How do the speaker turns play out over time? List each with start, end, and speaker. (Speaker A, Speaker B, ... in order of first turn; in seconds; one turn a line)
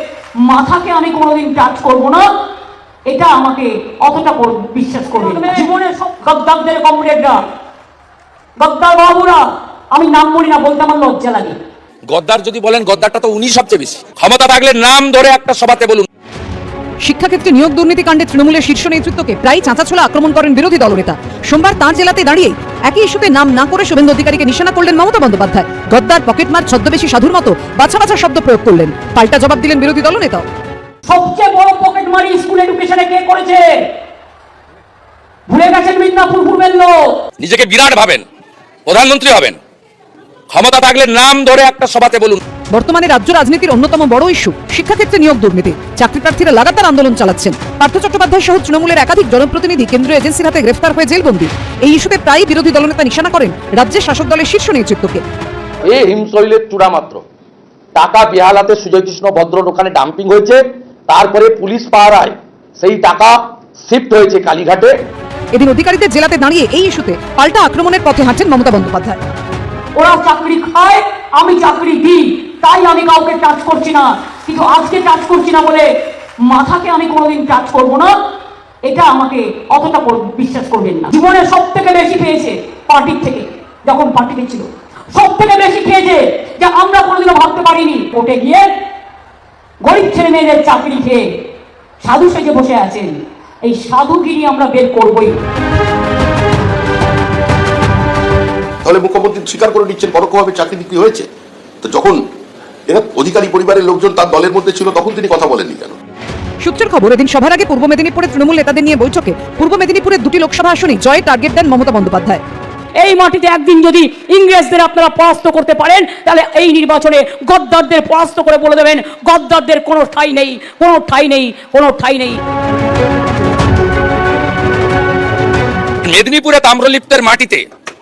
Speaker A: 0.4-2.2
Speaker A: 3.1-7.4
Speaker A: 8.6-9.4
Speaker A: 9.9-11.6
Speaker B: 12.1-16.1
Speaker C: 17.0-30.4
Speaker A: 31.1-33.6
Speaker A: 35.5-36.9
Speaker B: 37.4-38.2
Speaker B: 38.9-39.6
Speaker B: 40.5-42.4
Speaker C: 42.7-55.2
Speaker D: 55.8-57.2
Speaker D: 57.9-63.3
Speaker D: 63.8-64.9
Speaker C: 65.5-69.2
Speaker A: 70.0-75.9
Speaker A: 76.5-78.1
Speaker A: 78.8-88.7
Speaker A: 89.8-91.2
Speaker A: 92.0-95.4
Speaker E: 98.8-101.3
Speaker E: 101.8-102.2
Speaker E: 102.9-105.9
Speaker C: 106.6-112.4
Speaker A: 113.0-122.4
Speaker B: 126.0-127.6